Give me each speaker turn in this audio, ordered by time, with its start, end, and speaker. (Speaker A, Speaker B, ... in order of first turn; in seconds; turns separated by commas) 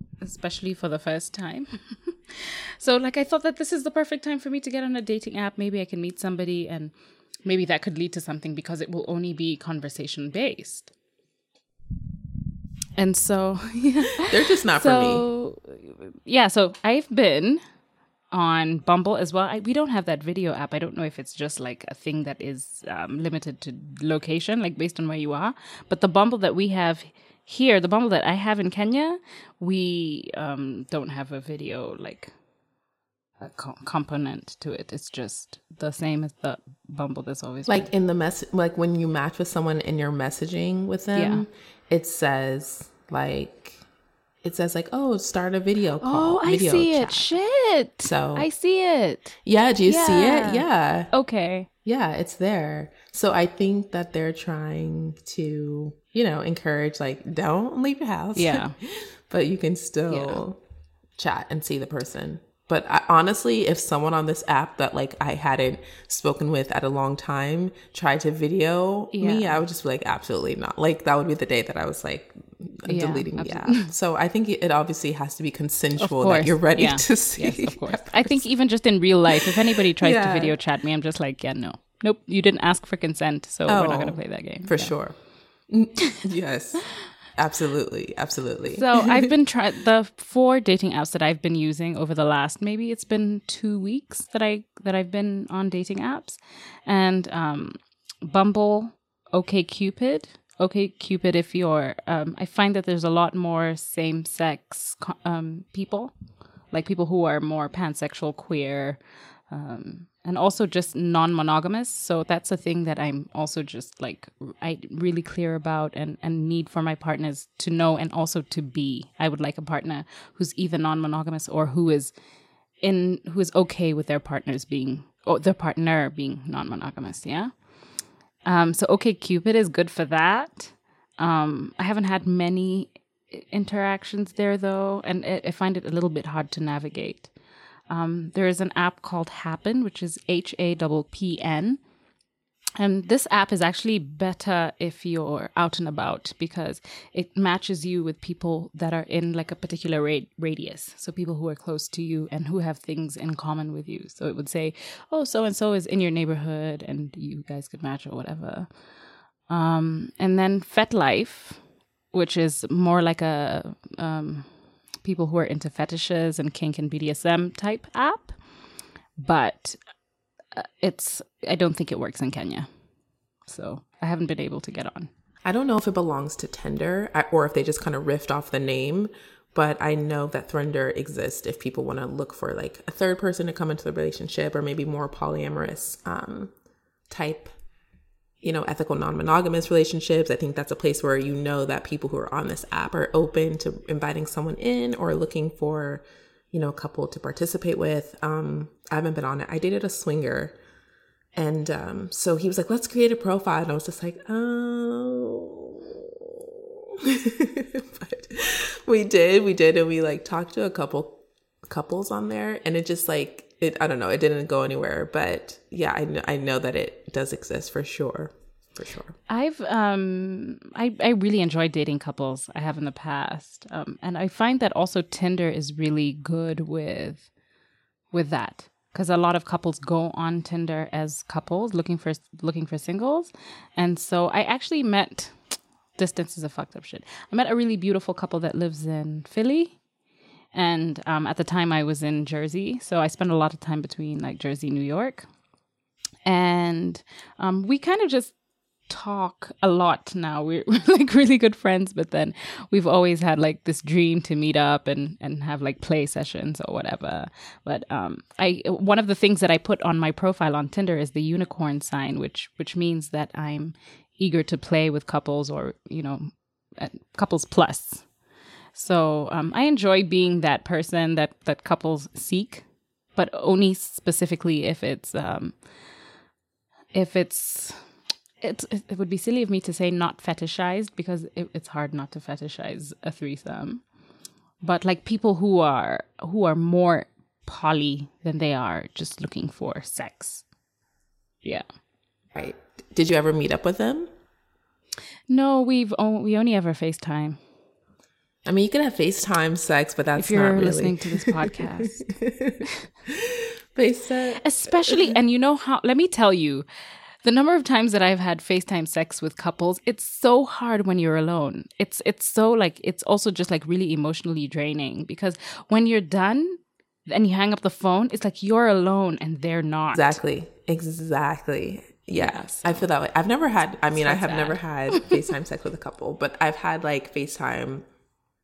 Speaker A: 0.2-10.9, Speaker A: 12.9-17.6, Speaker B: 14.2-15.3, Speaker A: 18.3-32.3, Speaker A: 33.4-37.9, Speaker B: 37.7-43.8, Speaker A: 41.1-41.4, Speaker B: 44.4-47.3, Speaker A: 46.0-51.7, Speaker B: 48.0-48.5, Speaker B: 49.4-51.1, Speaker B: 51.8-58.7, Speaker A: 58.3-58.7, Speaker B: 59.3-60.6, Speaker A: 60.1-60.4, Speaker B: 61.2-78.5, Speaker A: 69.1-69.6, Speaker A: 72.9-73.9, Speaker A: 76.0-84.9, Speaker B: 79.3-80.6, Speaker B: 83.7-85.2, Speaker B: 85.7-89.3, Speaker A: 88.7-106.2, Speaker A: 106.7-122.1, Speaker A: 122.8-127.5, Speaker A: 128.4-137.3, Speaker A: 137.9-141.8, Speaker A: 142.8-158.7, Speaker A: 159.5-161.6, Speaker A: 162.1-164.5, Speaker A: 165.0-168.4, Speaker A: 169.2-169.8, Speaker A: 170.5-172.7, Speaker A: 173.4-175.1, Speaker B: 175.4-186.5, Speaker B: 187.1-187.5, Speaker B: 188.4-200.6, Speaker B: 201.3-219.2, Speaker A: 219.3-227.3, Speaker A: 228.1-235.4, Speaker A: 236.0-239.8, Speaker A: 240.5-245.3, Speaker A: 246.2-248.3, Speaker A: 248.9-268.1, Speaker A: 268.7-275.6, Speaker A: 276.9-277.8, Speaker A: 278.4-283.8, Speaker A: 284.6-290.4, Speaker B: 292.3-294.1, Speaker A: 295.3-297.4, Speaker B: 298.4-305.1, Speaker A: 300.1-302.1, Speaker A: 304.4-306.6, Speaker A: 307.2-320.2, Speaker B: 319.9-327.9, Speaker A: 322.1-322.9, Speaker A: 323.9-325.2